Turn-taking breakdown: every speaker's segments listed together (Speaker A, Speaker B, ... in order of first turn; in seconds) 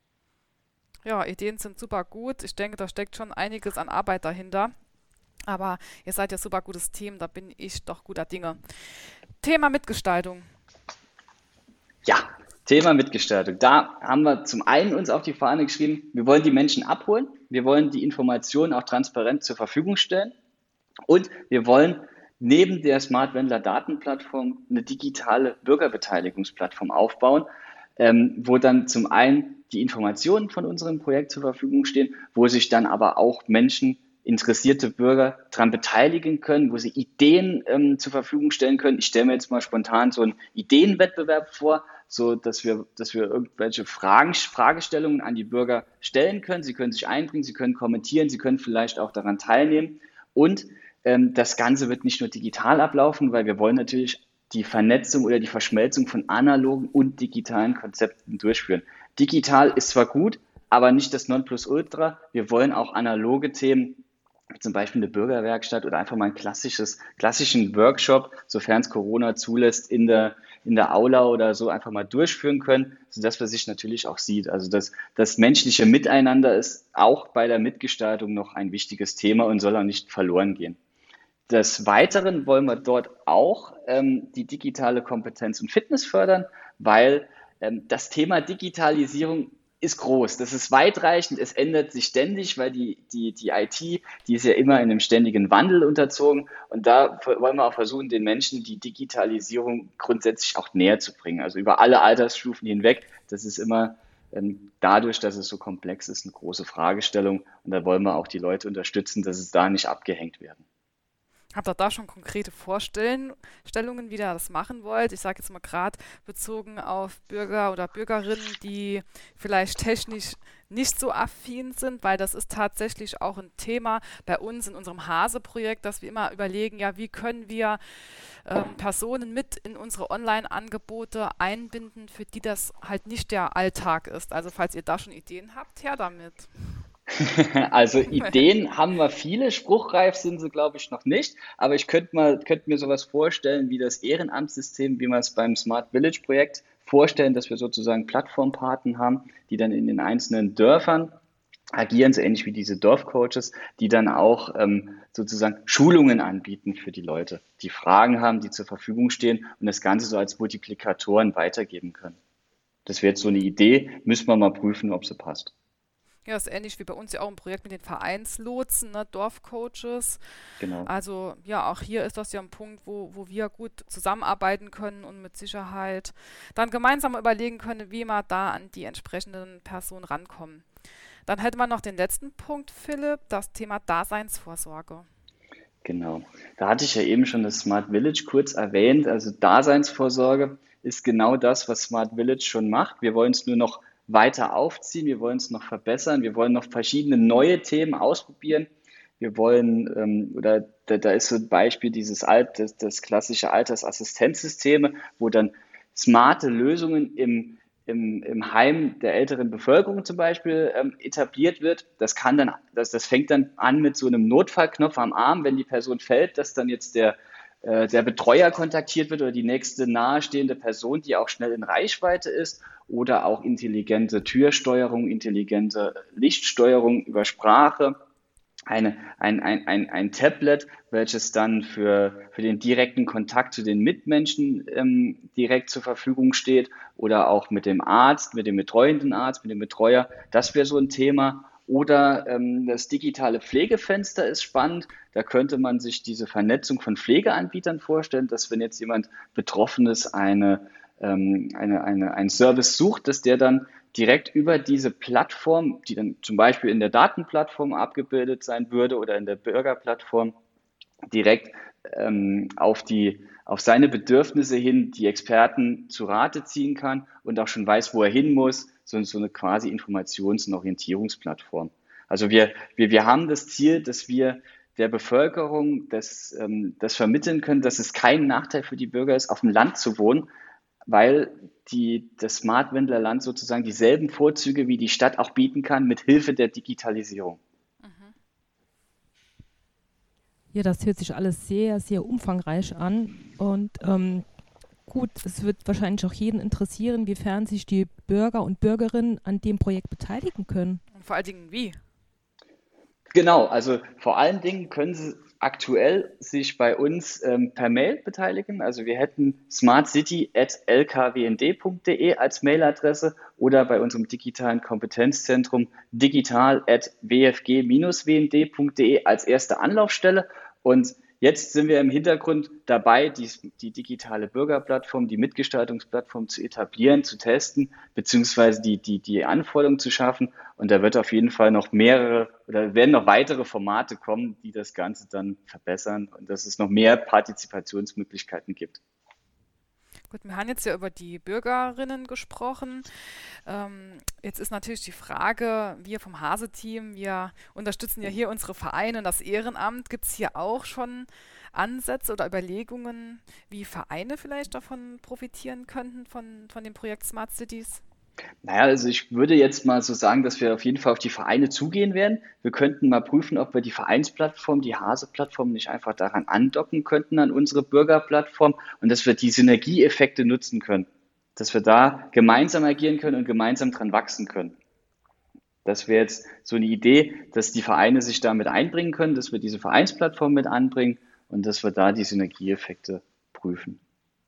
Speaker A: 1.0-4.7, 5.5-8.6, 9.4-10.5, 111.5-127.8, 128.4-136.5, 138.2-138.4, 166.2-170.2, 170.8-180.7, 181.2-185.1, 287.8-288.1, 300.9-301.8, 340.1-342.9, 343.4-357.8
Speaker B: 12.1-20.3, 21.1-64.0, 64.5-80.8, 81.5-110.6, 137.1-151.1, 151.8-162.2, 162.8-165.5, 170.6-170.9, 185.8-228.0, 228.7-260.4, 261.1-280.3, 280.9-287.4, 303.1-338.8, 358.4-374.6, 375.6-383.8
Speaker C: 290.5-294.2, 294.9-300.8